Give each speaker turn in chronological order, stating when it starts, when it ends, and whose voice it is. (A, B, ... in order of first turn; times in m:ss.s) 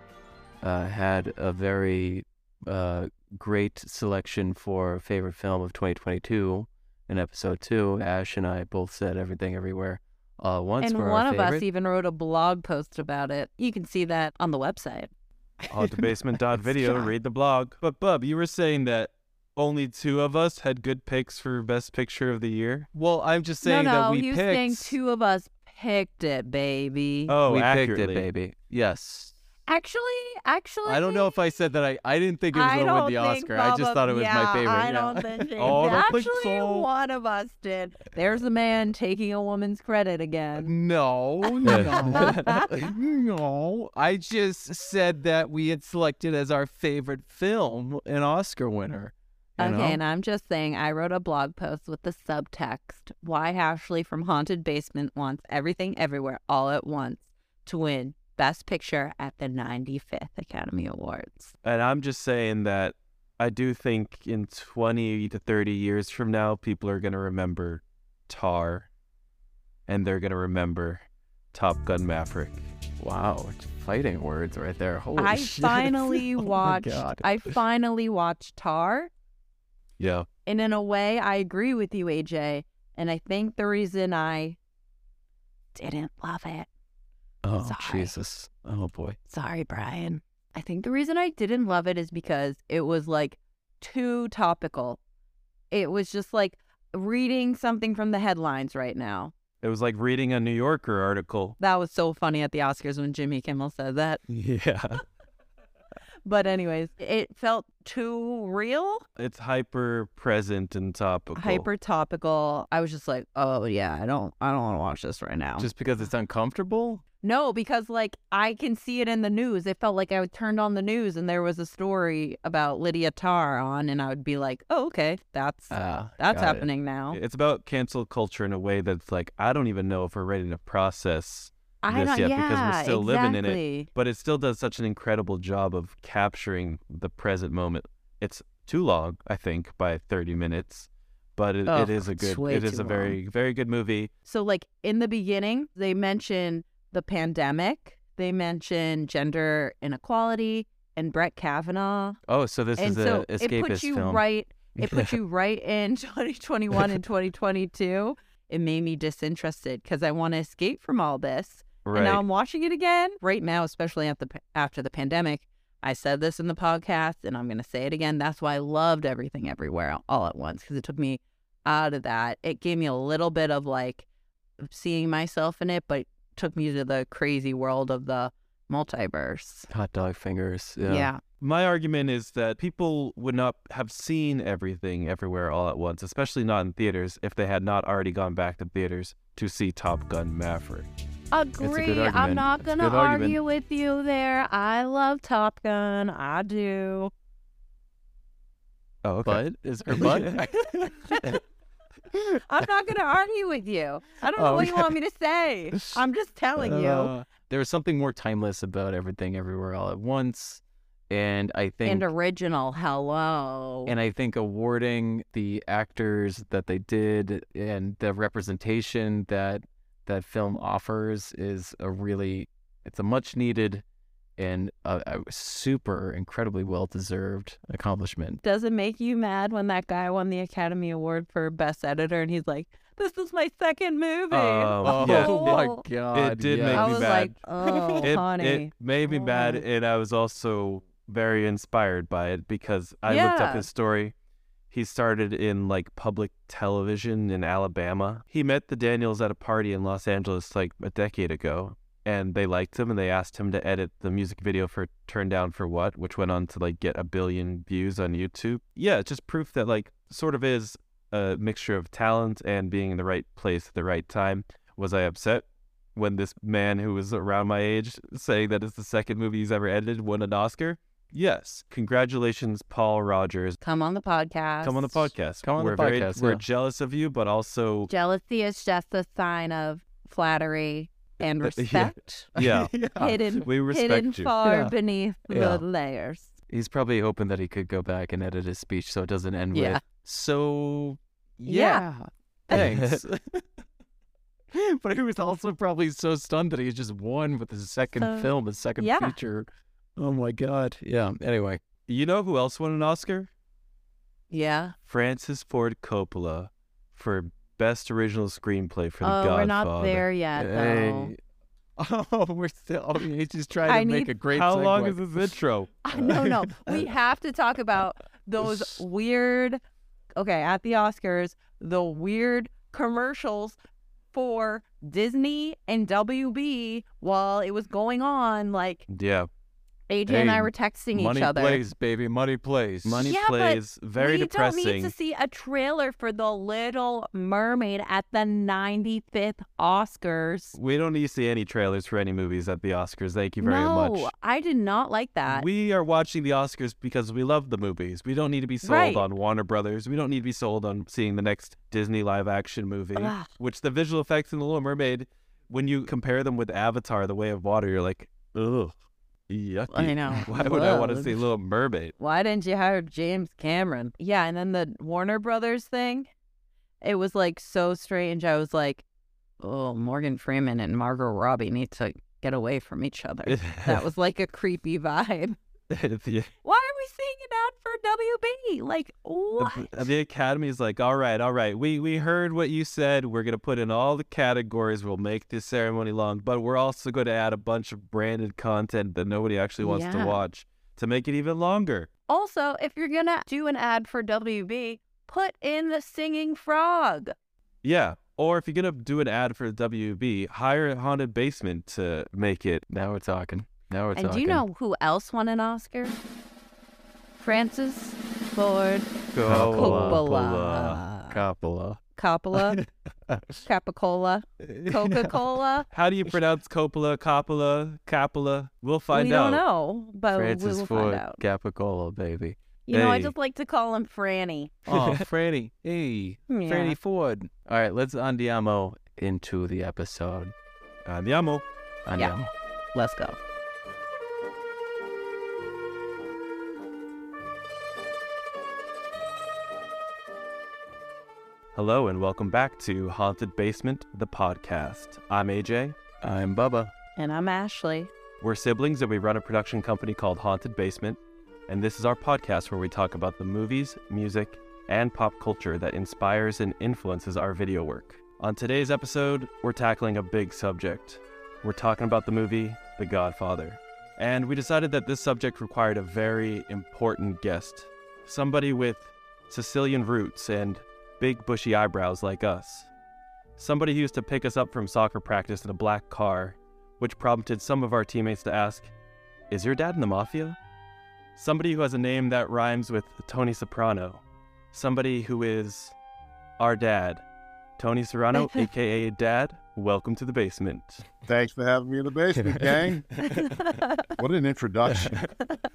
0:00.6-0:11.6 A
0:10.8-0:15.1 B
0:15.7-0:22.9 C
0:22.9-0:25.0 A
0:23.6-0:27.3 B
0:27.3-0:28.3 C
0:27.4-0:29.3 A
0:29.7-0:31.4 B
0:30.8-0:36.8 A
0:32.5-0:40.7 B
0:35.6-0:36.7 C
0:40.6-0:50.0 A
0:41.4-0:42.9 B
0:41.6-0:42.2 C
0:49.6-1:01.5 B
1:01.6-1:08.9 C
1:09.9-1:12.7 C
1:13.0-1:17.3 A
1:15.2-1:19.1 B
1:20.0-1:20.2 C
1:20.4-1:24.6 B
1:25.7-1:26.7 B
1:27.4-1:29.2 A
1:27.6-1:28.1 B
1:29.3-1:35.0 B
1:35.7-1:39.3 B
1:39.6-1:41.6 C
1:41.6-1:44.2 B
1:44.3-1:45.0 C
1:46.2-1:49.0 B
1:49.2-1:51.7 C
1:51.4-1:55.7 B
1:55.6-1:57.0 A
1:57.2-2:07.2 B
2:05.7-2:06.7 A
2:07.1-2:24.1 C
2:11.8-2:13.9 B
2:21.7-2:23.2 B
2:24.2-2:32.2 B
2:32.3-2:34.2 A
2:32.8-2:54.0 B
2:41.8-2:42.2 C
2:54.6-2:59.7 B
2:59.7-3:01.1 A
3:00.9-3:01.2 B
3:01.4-3:10.9 C
3:11.3-3:17.1 B
3:11.6-3:13.4 A
3:19.0-3:20.5 C
3:19.2-3:21.2 A
3:22.4-3:27.1 B
3:24.4-3:24.8 A
3:26.6-3:32.1 A
3:31.8-3:33.9 B
3:33.8-3:43.8 A
3:44.4-3:48.4 A
3:48.4-3:55.8 B
3:54.3-3:55.6 C
3:54.8-3:58.1 A
3:56.1-3:57.3 C
3:56.7-3:59.6 B
3:58.0-4:04.1 C
4:03.1-4:03.7 B
4:04.7-4:33.6 C
4:33.6-4:35.1 B
4:34.6-4:37.9 C
4:35.4-4:36.4 A
4:37.9-4:42.3 B
4:41.4-4:42.8 C
4:42.4-4:43.2 A
4:43.0-4:46.3 B
4:43.4-4:44.3 C
4:44.4-4:44.7 A
4:45.3-4:45.6 A
4:46.5-4:53.6 A
4:49.5-4:49.8 B
4:51.4-4:51.8 B
4:52.5-4:53.0 C
4:54.5-5:01.6 A
4:57.9-4:59.2 B
5:01.9-5:03.3 C
5:04.3-5:04.7 B
5:04.8-5:10.1 C
5:09.0-5:11.1 B
5:10.4-5:11.2 A
5:11.8-5:15.0 A
5:13.6-5:14.1 B
5:14.3-5:15.8 C
5:15.8-5:19.6 B
5:15.9-5:16.9 A
5:20.2-5:23.6 B
5:24.1-5:28.8 B
5:28.9-5:29.3 C
5:29.9-5:31.6 B
5:30.1-5:33.1 A
5:32.8-5:34.9 C
5:33.0-5:40.6 B
5:40.5-5:44.1 C
5:43.4-5:45.4 B
5:45.3-5:58.7 C
5:48.6-5:49.0 B
5:53.0-5:53.3 B
5:59.3-6:01.9 C
5:59.7-6:01.2 B
6:02.0-6:06.1 B
6:06.8-6:08.8 B
6:09.4-6:15.4 B
6:13.3-6:13.8 C
6:15.7-6:16.3 C
6:16.4-6:19.7 B
6:19.4-6:31.9 C
6:29.6-6:30.2 B
6:32.1-6:37.1 B
6:37.6-6:42.6 C
6:42.7-6:44.4 A
6:43.9-6:46.0 B
6:47.2-6:48.9 B
6:49.1-6:50.8 C
6:49.2-6:50.0 A
6:49.5-6:51.2 B
6:51.1-6:51.8 A
6:52.0-6:52.6 B
6:53.4-6:55.7 B
6:54.4-6:55.1 A
6:55.7-6:59.4 C
6:58.9-7:01.2 B
7:00.1-7:02.4 A
7:02.7-7:04.5 B
7:02.7-7:03.1 C
7:04.7-7:10.3 A
7:04.7-7:05.0 C
7:06.3-7:06.8 B
7:10.8-7:11.4 C
7:11.8-7:12.3 A
7:12.7-7:13.2 B
7:21.5-7:25.8 C
7:26.0-7:26.7 A
7:27.0-7:27.9 B
7:28.2-7:52.7 C
7:53.4-7:58.7 C
7:59.3-8:00.4 C
8:01.2-8:05.7 C
8:06.4-8:07.0 C
8:07.6-8:10.8 C
8:08.2-8:08.4 B
8:11.0-8:12.9 D
8:12.2-8:12.7 A
8:13.2-8:13.7 B
8:14.0-8:15.1 D